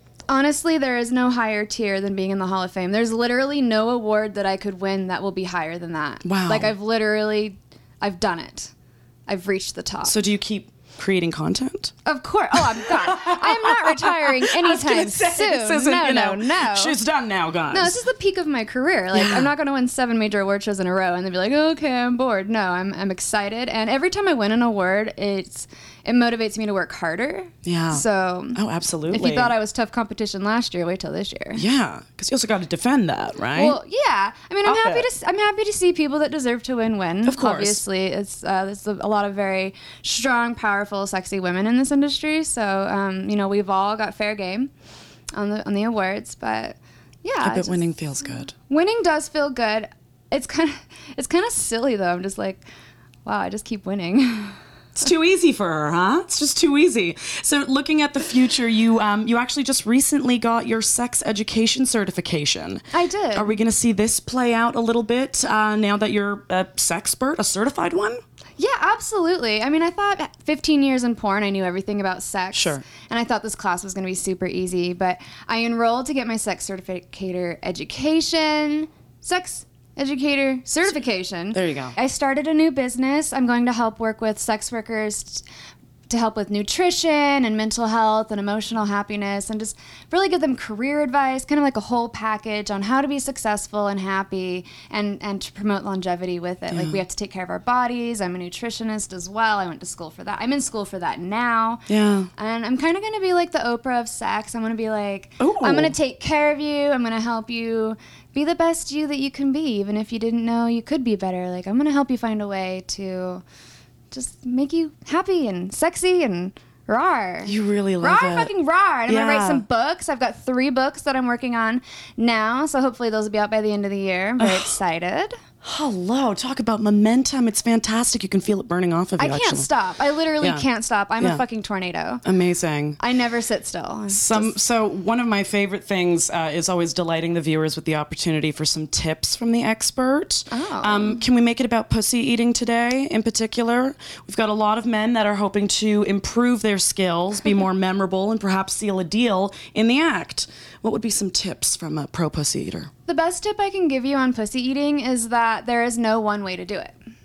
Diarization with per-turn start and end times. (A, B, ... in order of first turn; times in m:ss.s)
0:00.3-0:08.7 A
0:06.2-0:06.7 B
0:09.3-0:10.2 A
0:10.0-0:11.9 B
0:12.0-0:17.0 A
0:12.6-0:18.0 B
0:17.7-0:28.6 A
0:19.1-0:19.5 B
0:27.6-0:29.5 B
0:29.1-0:31.6 A
0:31.5-0:33.8 B
0:33.6-0:44.7 A
0:34.6-0:35.1 B
0:37.2-0:37.8 B
0:45.3-0:48.0 A
0:47.4-0:48.5 B
0:48.6-0:52.6 A
0:53.2-0:54.6 A
0:55.0-1:08.2 B
1:02.9-1:03.5 A
1:08.6-1:25.4 A
1:12.5-1:12.9 B
1:21.5-1:22.0 B
1:26.1-1:41.8 A
1:36.7-1:37.0 B
1:41.9-1:42.3 B
1:42.4-1:53.4 A
1:45.4-1:45.9 B
1:54.1-2:05.4 A
1:57.4-1:58.5 B
1:59.1-1:59.6 B
2:04.4-2:04.7 B
2:05.6-2:09.7 B
2:09.2-2:12.2 A
2:10.4-2:10.6 B
2:12.2-2:13.0 B
2:13.0-2:14.5 A
2:14.1-2:32.9 B
2:20.5-2:21.2 A
2:33.0-2:37.0 A